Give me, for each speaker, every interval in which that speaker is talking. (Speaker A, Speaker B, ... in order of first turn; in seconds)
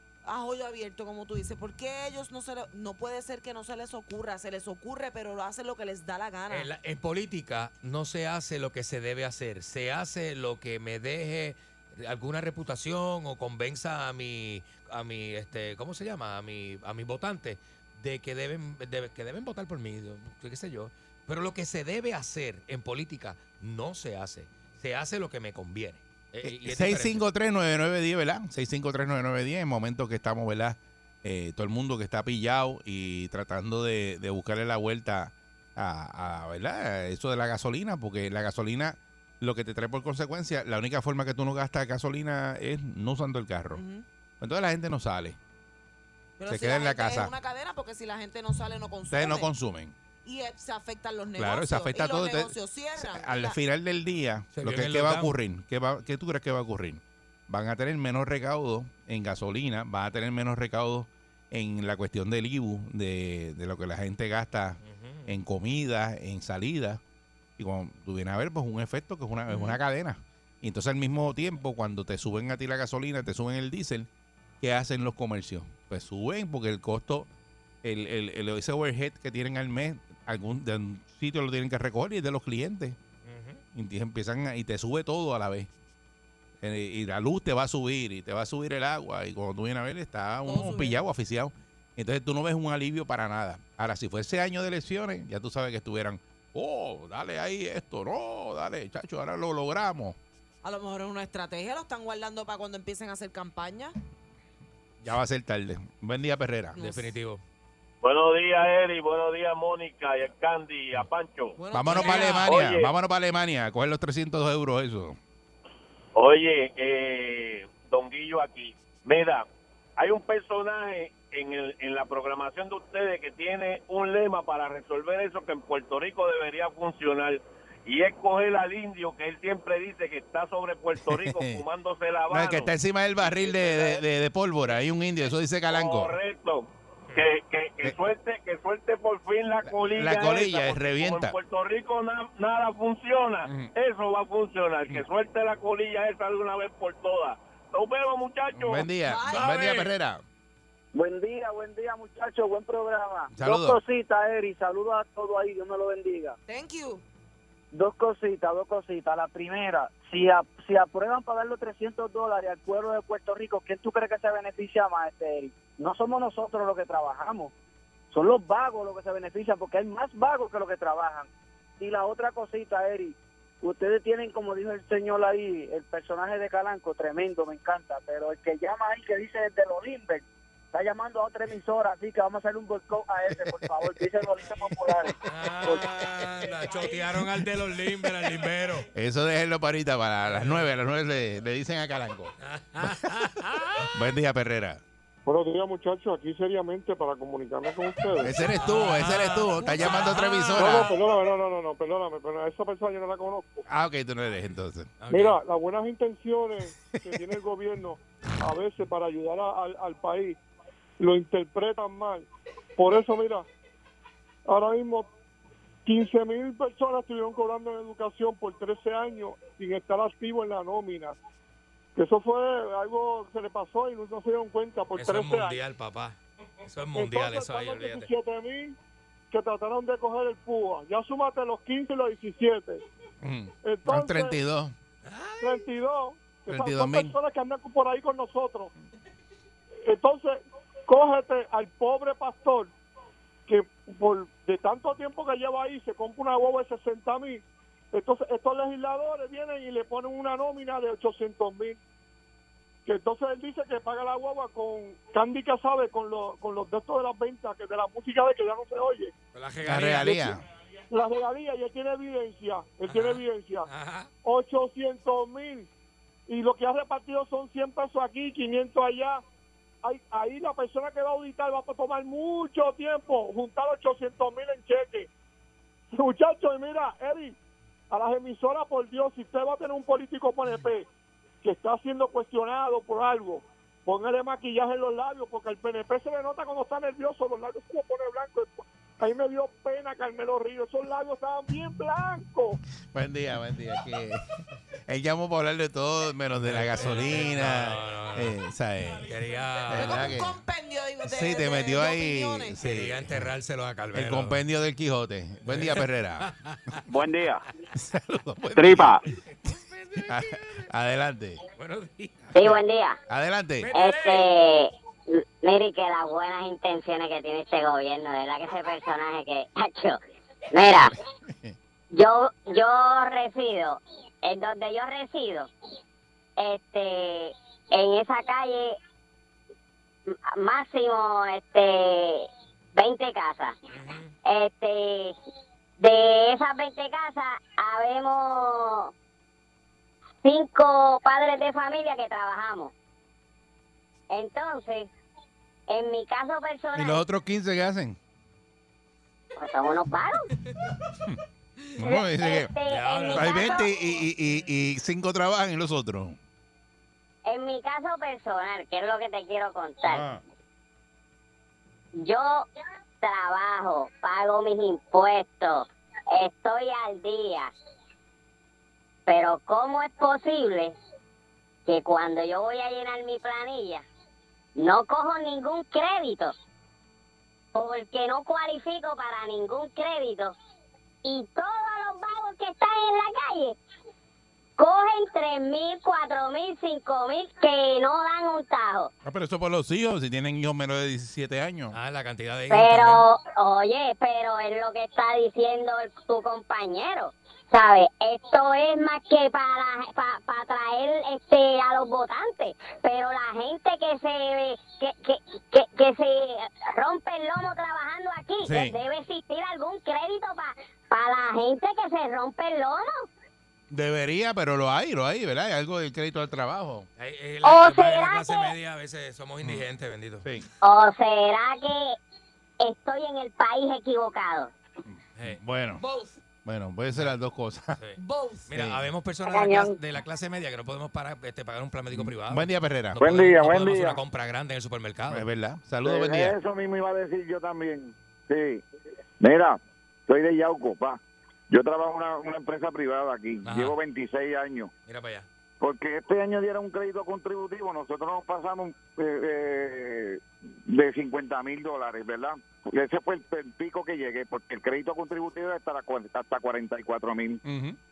Speaker A: 0.2-6.7, 43.7-44.0, 46.4-49.5, 50.2-53.6, 69.5-69.8, 90.5-91.0, 100.6-104.0, 106.8-107.0, 111.6-112.5, 149.1-149.5, 156.5-157.0, 199.6-200.1, 299.7-302.5, 428.0-428.5
Speaker B: 6.5-27.2, 54.5-55.3, 64.8-65.3, 83.3-83.6, 106.8-107.4, 185.2-188.9, 190.3-190.7, 192.4-193.9, 198.6-200.9, 205.0-205.4, 225.0-228.1, 235.0-235.7, 259.3-260.4, 262.9-264.1, 296.4-298.4, 299.1-300.2, 302.6-304.4, 305.5-306.8, 311.6-312.6, 313.6-314.4, 333.7-334.1, 352.7-353.7, 391.7-393.1, 417.0-420.3, 427.8-435.2, 443.4-443.8, 444.9-445.3
Speaker C: 26.4-43.8, 44.4-45.4, 46.5-47.3, 49.1-50.0, 51.4-67.0, 67.6-74.1, 74.6-77.3, 77.8-83.0, 83.7-85.7, 86.6-100.2, 105.0-106.8, 111.7-115.2, 131.1-131.6, 132.3-136.2, 139.6-141.4, 143.4-143.7, 148.5-150.2, 153.3-153.8, 183.3-184.1, 187.1-187.4, 188.9-193.0, 193.9-194.8, 198.2-200.9, 203.7-204.9, 233.2-234.7, 236.5-237.1, 259.6-260.4, 292.9-294.2, 294.9-299.1, 299.7-300.4, 301.1-303.3, 303.9-306.3, 307.8-309.0, 310.1-311.4, 313.1-313.7, 320.7-321.6, 346.8-348.0, 351.8-352.5, 353.1-356.2, 359.9-360.2, 389.0-391.8, 408.4-408.8, 413.7-416.9, 425.2-425.8, 426.4-427.8, 428.5-428.8, 431.9-433.1, 435.1-436.4, 457.4-457.8
Speaker D: 108.0-112.9, 116.2-119.5, 120.0-132.7, 133.2-134.0, 135.7-148.9
Speaker E: 150.9-156.4, 157.7-167.5, 168.1-171.3, 171.8-185.8
Speaker F: 195.3-198.4, 200.6-203.7, 205.1-210.4, 211.0-212.3, 212.8-213.4, 214.5-215.1, 215.9-221.2, 222.0-225.6, 226.9-228.8, 229.3-232.8, 233.6-234.4, 235.4-238.7, 239.9-242.7, 243.5-251.8, 252.9-259.1, 260.9-263.7, 264.2-265.7, 266.3-269.2, 269.8-275.1, 275.9-277.4, 277.9-280.9, 281.4-292.6
Speaker G: 312.3-313.0, 313.7-320.0, 320.5-320.9, 322.0-325.5, 326.4-328.8, 330.1-333.6, 334.3-335.1, 335.8-338.9, 340.2-342.7, 344.1-344.9, 345.7-347.0, 349.4-350.2, 351.9-353.7, 357.3-360.1, 362.1-362.5, 363.0-365.7, 366.2-367.5, 369.1-370.8, 371.7-373.9, 374.6-376.3, 377.6-380.3, 381.1-383.6, 384.6-388.9, 392.5-413.0, 417.4-418.5, 420.6-422.0, 422.6-424.5, 429.3-429.7
Speaker H: 433.0-434.0, 435.8-438.6, 439.2-441.0, 441.5-444.7, 445.6-457.4